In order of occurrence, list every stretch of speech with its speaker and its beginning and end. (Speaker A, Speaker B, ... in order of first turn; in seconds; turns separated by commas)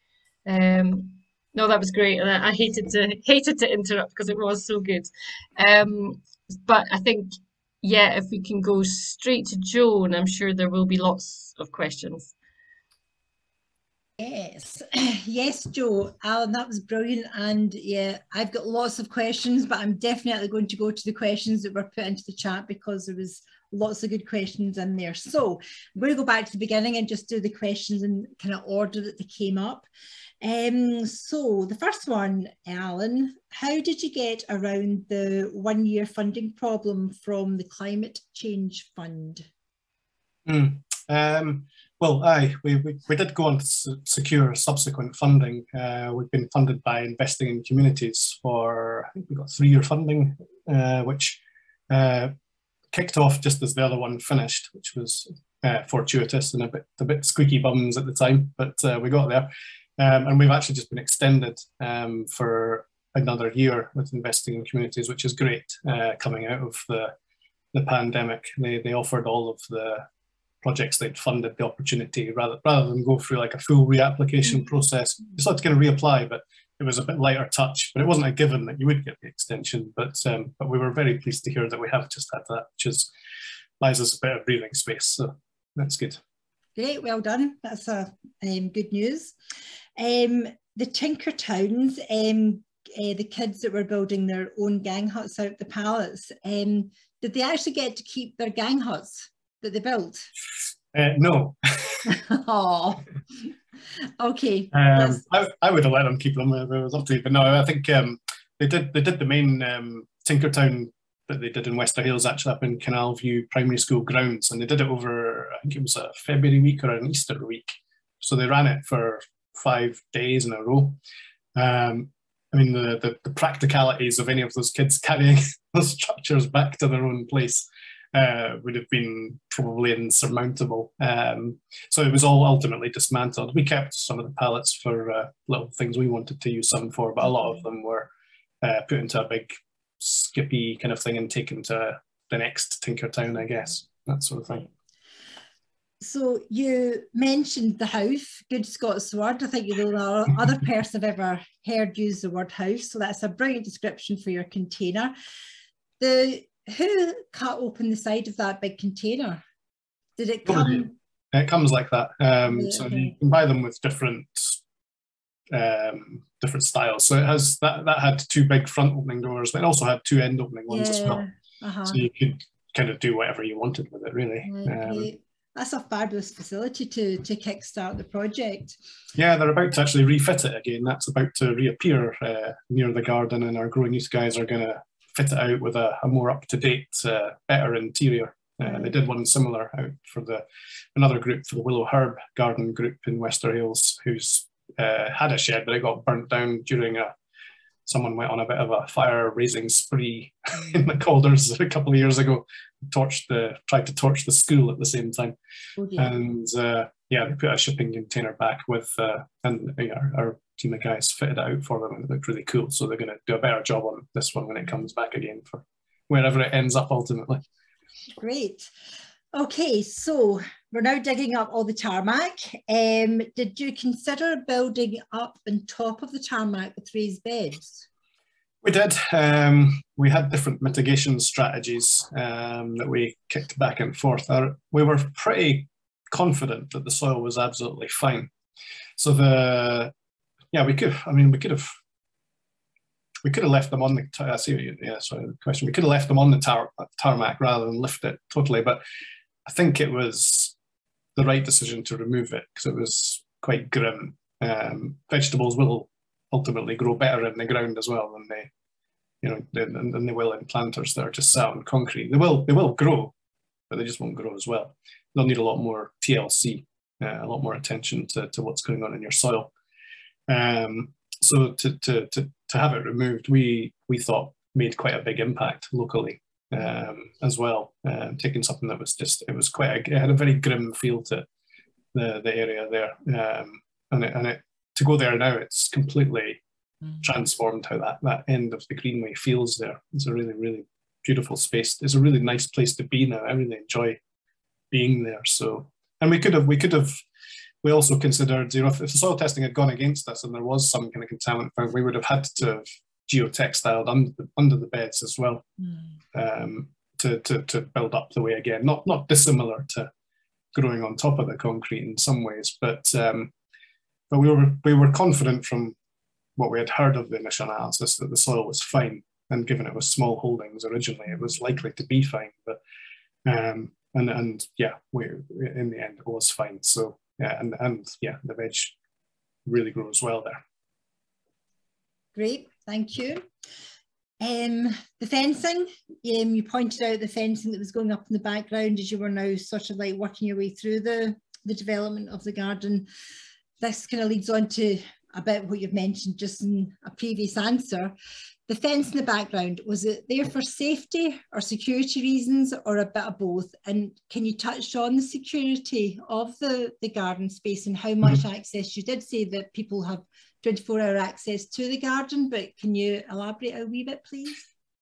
Speaker A: 0.5-12.3, Speaker B: 14.2-29.9, Speaker B: 30.4-39.5, Speaker C: 40.5-52.3, Speaker C: 52.9-67.1, Speaker C: 67.7-70.1, Speaker C: 70.6-83.1, Speaker C: 83.8-86.2, Speaker B: 86.8-89.3, Speaker B: 90.0-100.3, Speaker C: 100.9-102.1, Speaker B: 102.1-103.5, Speaker B: 104.2-105.2, Speaker C: 104.7-121.0, Speaker C: 121.6-138.1, Speaker C: 138.6-144.7, Speaker B: 146.0-155.1, Speaker B: 156.0-159.4, Speaker B: 160.2-160.9, Speaker C: 160.4-164.6, Speaker B: 162.5-163.1, Speaker C: 165.5-171.2, Speaker B: 170.7-172.0, Speaker C: 171.9-175.1, Speaker B: 174.4-178.8, Speaker C: 179.2-190.4, Speaker C: 190.9-197.1, Speaker C: 197.9-205.3, Speaker B: 205.8-206.1, Speaker C: 206.0-217.4, Speaker B: 218.2-218.7, Speaker B: 219.3-227.8, Speaker C: 228.6-238.3, Speaker C: 239.0-239.9, Speaker C: 240.5-241.7, Speaker C: 243.2-248.8, Speaker C: 249.5-250.6, Speaker C: 251.2-258.5, Speaker C: 259.2-263.1, Speaker C: 263.7-269.5, Speaker C: 270.3-281.3, Speaker C: 281.9-286.4, Speaker C: 287.0-294.0, Speaker C: 294.7-297.0, Speaker C: 297.6-305.5, Speaker C: 306.1-309.9, Speaker C: 310.5-313.3, Speaker C: 314.1-315.8, Speaker C: 316.4-322.6, Speaker C: 323.3-328.7, Speaker C: 329.5-330.4, Speaker B: 332.1-333.2, Speaker B: 334.2-342.9, Speaker B: 343.6-347.9, Speaker B: 348.5-364.4